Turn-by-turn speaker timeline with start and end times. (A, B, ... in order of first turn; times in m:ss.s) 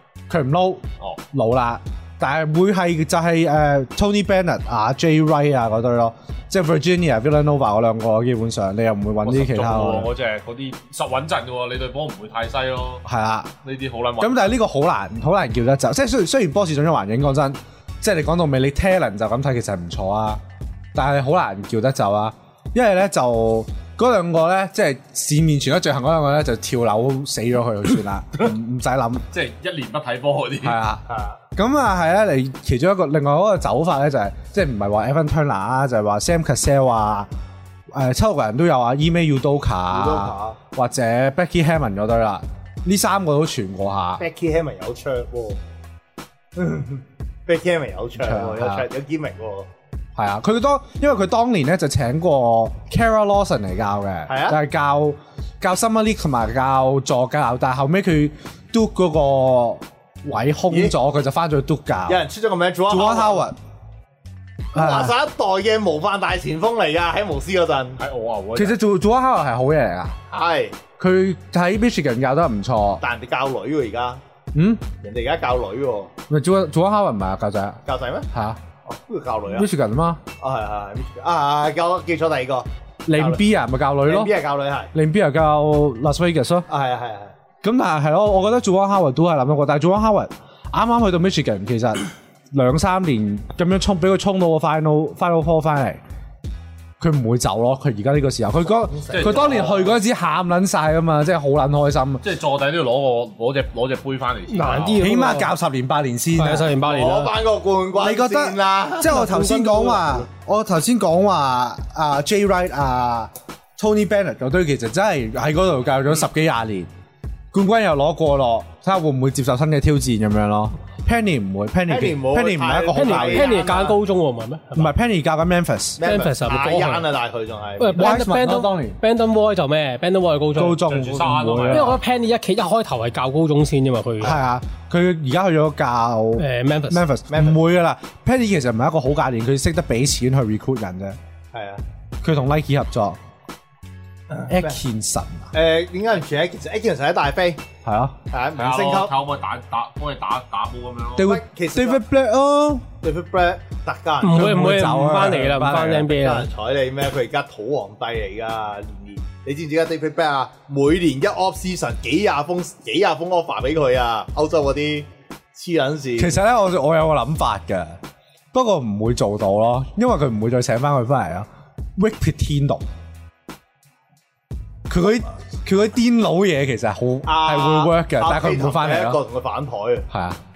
0:00.3-0:10.1 A
0:09.2-0:13.0 B
0:13.0-0:13.5 A
0:13.6-0:14.6 B
0:14.2-0:20.4 A
0:21.0-0:29.3 A
0:29.3-0:30.8 B
0:30.6-0:31.0 A
0:31.1-0:31.4 C
0:31.6-0:37.3 A
0:37.9-0:44.2 A
0:39.9-0:40.6 C
0:44.2-0:45.6 C
0:46.6-0:49.7 C
0:48.2-0:48.9 A
0:50.2-1:02.2 A
0:54.3-0:54.6 C
1:02.1-1:03.4 C
1:02.9-1:03.6 A
1:04.7-1:05.2 A
1:04.7-1:08.0 C
1:08.0-1:08.8 B
1:08.6-1:10.2 A
1:10.3-1:10.8 C
1:11.0-1:13.0 A
1:13.0-1:14.2 C
1:14.5-1:14.8 A
1:15.0-1:16.1 C
1:16.3-1:18.6 A
1:17.9-1:18.3 C
1:18.8-1:19.7 C
1:19.5-1:20.2 A
1:20.4-1:23.4 C
1:23.1-1:24.3 A
1:24.0-1:24.9 C
1:24.9-1:26.7 A
1:26.7-1:27.3 C
1:27.6-1:36.0 A
1:37.0-1:42.2 A
1:38.7-1:40.0 C
1:39.1-1:39.9 B
1:42.2-1:45.1 B
1:44.5-1:45.5 D
1:45.0-1:46.7 A
1:46.4-1:47.3 D
1:46.8-1:50.2 C
1:48.0-1:56.9 A
1:49.1-1:49.9 D
1:57.5-2:03.8 A
2:01.9-2:04.0 C
2:02.9-2:04.9 D
2:04.8-2:06.0 A
2:06.0-2:08.2 C
2:06.0-2:07.1 D
2:07.8-2:10.8 D
2:07.9-2:09.0 A
2:10.6-2:12.0 A
2:10.8-2:12.0 B
2:11.7-2:14.4 D
2:14.2-2:21.2 A
2:16.4-2:17.0 D
2:17.3-2:17.6 C
2:21.5-2:21.8 C
2:22.2-2:23.2 A
2:24.3-2:24.8 C
2:24.5-2:25.5 A
2:25.5-2:27.6 C
2:27.8-2:28.2 A
2:28.3-2:29.1 C
2:28.6-2:31.3 B
2:31.2-2:32.9 A
2:31.2-2:32.0 C
2:33.0-2:34.5 C
2:34.2-2:36.5 D
2:34.3-2:36.2 A
2:36.1-2:46.4 C
2:46.2-2:48.0 A
2:48.5-2:52.8 A
2:54.9-2:59.2 A
2:57.2-3:00.1 C
3:00.1-3:00.4 A